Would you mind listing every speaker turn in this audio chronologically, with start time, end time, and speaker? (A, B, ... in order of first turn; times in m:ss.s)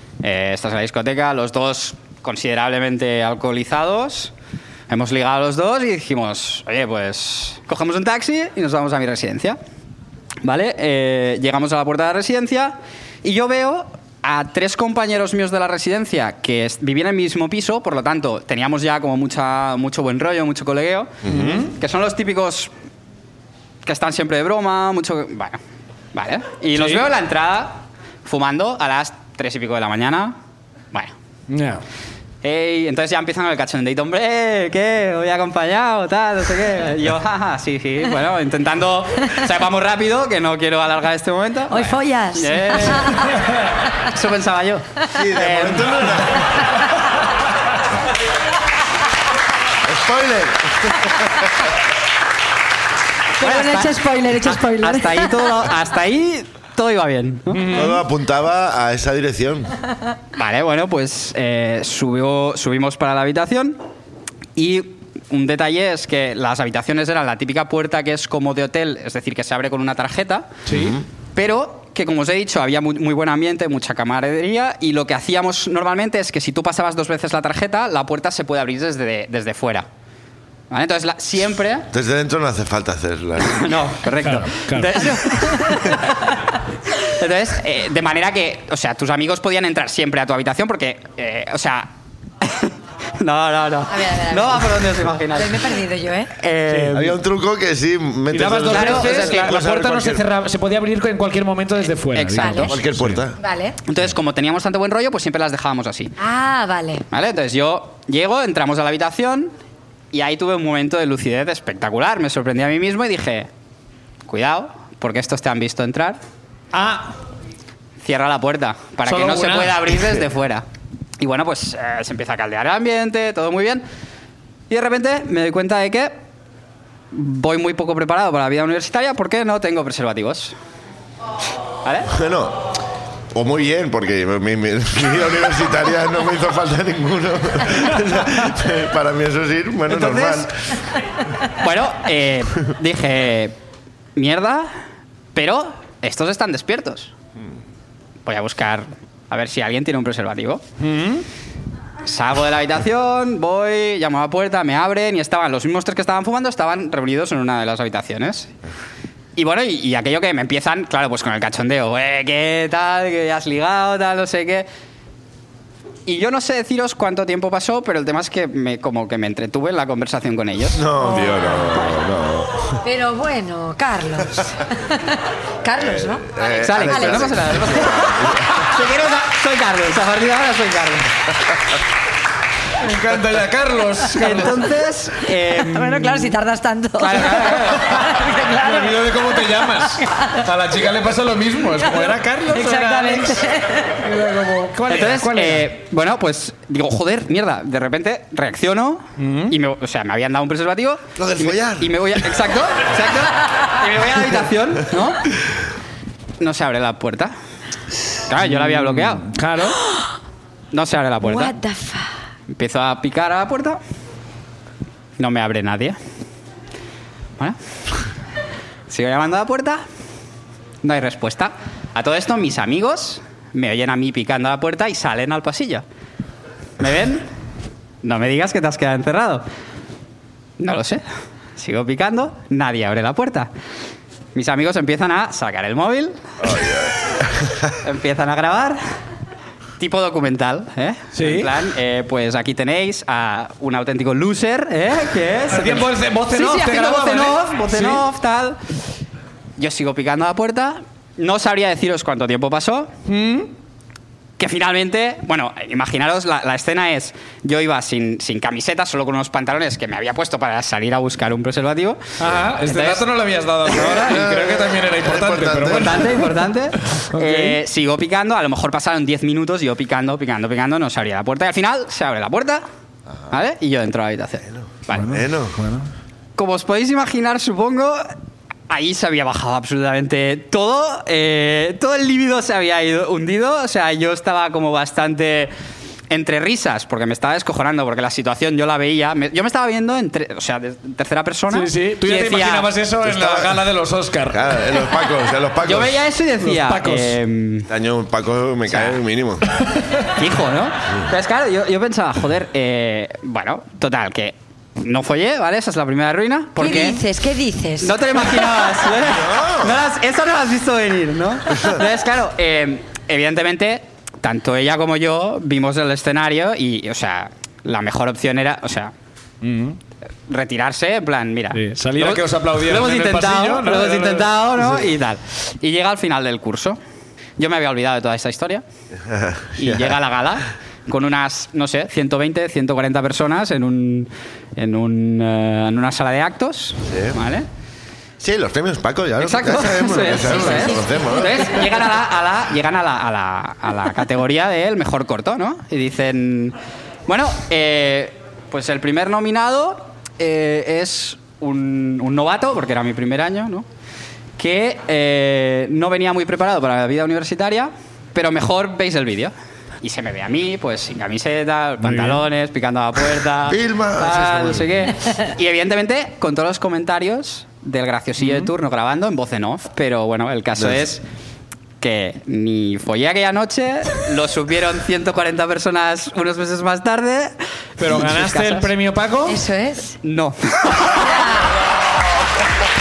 0:00.2-0:04.3 A
0:04.9-0:09.6 A
0:10.4-0:22.7 A
0:21.2-0:21.6 B
0:21.3-0:21.7 C
0:23.8-0:25.6 A
0:26.1-0:30.4 A
0:26.7-0:27.1 C
0:31.5-0:31.8 C
0:32.4-0:43.3 A
0:41.7-0:43.3 D
0:44.0-0:46.1 A
0:45.1-0:46.7 B
0:49.8-0:51.5 B
0:53.4-0:55.7 D
0:53.4-0:57.8 A
0:57.5-0:58.0 C
0:57.7-0:59.7 B
1:00.4-1:03.8 A
1:04.6-1:10.6 A
1:10.7-1:11.0 C
1:10.7-1:11.0 B
1:11.4-1:19.9 A
1:20.7-1:21.9 A
1:21.9-1:23.8 B
1:23.4-1:26.3 A
1:24.2-1:25.0 C
1:25.1-1:25.9 D
1:27.0-1:35.7 A
1:33.9-1:34.8 D
1:35.3-1:36.3 D
1:36.4-1:37.1 A
1:36.7-1:37.1 C
1:36.9-1:40.2 B
1:38.3-1:43.2 C
1:38.6-1:39.6 A
1:42.1-1:42.8 A
1:42.4-1:42.7 D
1:42.6-1:43.4 B
1:43.4-1:43.8 D
1:43.9-1:46.1 A
1:46.2-1:47.0 D
1:47.1-1:49.5 A
1:50.1-1:53.5 A
1:54.3-1:56.2 A
1:56.7-1:57.1 C
1:58.0-2:00.6 A
1:59.0-2:00.2 C
2:01.2-2:03.8 A
2:04.7-2:06.2 A
2:07.1-2:10.6 A
2:11.8-2:12.1 A
2:12.1-2:12.7 B
2:13.3-2:20.5 B
2:19.9-2:20.5 A
2:21.6-2:23.6 A
2:24.2-2:24.7 A
2:25.3-2:27.1 A
2:28.3-2:30.6 A
2:30.8-2:31.2 C
2:32.0-2:38.5 A
2:39.4-2:44.7 A
2:46.1-2:50.9 A
2:50.8-2:52.8 B
2:51.0-2:51.6 D
2:52.8-2:57.4 D
2:55.8-2:58.7 B
2:56.5-3:01.1 A
3:02.8-3:04.7 C
3:04.1-3:06.4 A
3:05.5-3:10.4 D
3:07.0-3:08.0 A
3:07.8-3:13.4 C
3:11.8-3:14.0 D
3:14.0-3:15.7 C
3:14.9-3:25.2 A
3:19.2-3:19.6 C
3:21.2-3:22.2 B
3:26.4-3:27.3 A
3:28.3-3:29.3 A
3:28.4-3:29.8 C
3:30.7-3:31.6 A
3:31.2-3:32.1 D
3:32.5-3:33.8 A
3:35.2-3:36.0 A
3:38.9-3:39.8 A
3:40.8-3:45.8 A
3:46.8-3:47.3 A
3:48.0-3:49.4 A
3:50.6-3:51.0 A
3:51.6-3:53.5 A
3:54.4-3:56.2 A
3:56.5-3:56.9 B
3:57.8-3:58.8 A
3:59.8-4:08.6 A
4:01.1-4:01.5 C
4:05.5-4:08.0 C
4:09.6-4:12.9 A
4:13.1-4:13.5 C
4:14.4-4:22.0 A
4:22.2-4:26.3 C
4:22.6-4:23.1 A
4:23.6-4:24.1 A
4:24.0-4:26.2 B
4:25.7-4:32.6 A
4:26.9-4:27.6 C
4:33.3-4:35.2 A
4:34.9-4:35.9 C
4:35.0-4:35.6 B
4:36.4-4:38.1 A
4:38.7-4:45.5 A
4:46.1-4:52.8 A
4:51.5-4:54.6 C
4:53.0-4:53.6 B
4:54.3-4:56.0 B
4:55.6-4:57.7 A
4:56.4-4:57.2 C
4:57.7-4:59.4 B
4:58.7-4:59.0 A
5:00.1-5:07.0 A
5:06.6-5:08.4 D
5:07.8-5:18.9 A
5:09.0-5:09.8 B
5:19.4-5:19.8 C
5:20.3-5:26.8 A
5:21.5-5:24.3 C
5:27.4-5:28.6 A
5:29.1-5:30.0 B
5:29.6-5:37.5 A
5:36.9-5:37.2 B
5:38.2-5:41.5 B
5:39.2-5:46.6 A
5:47.1-5:53.7 A
5:54.4-6:11.0 A
6:01.8-6:02.3 C
6:03.4-6:04.9 B
6:08.2-6:08.5 C
6:11.8-6:18.7 A
6:17.8-6:19.4 C
6:19.3-6:20.0 D
6:20.0-6:21.1 A
6:21.0-6:21.5 D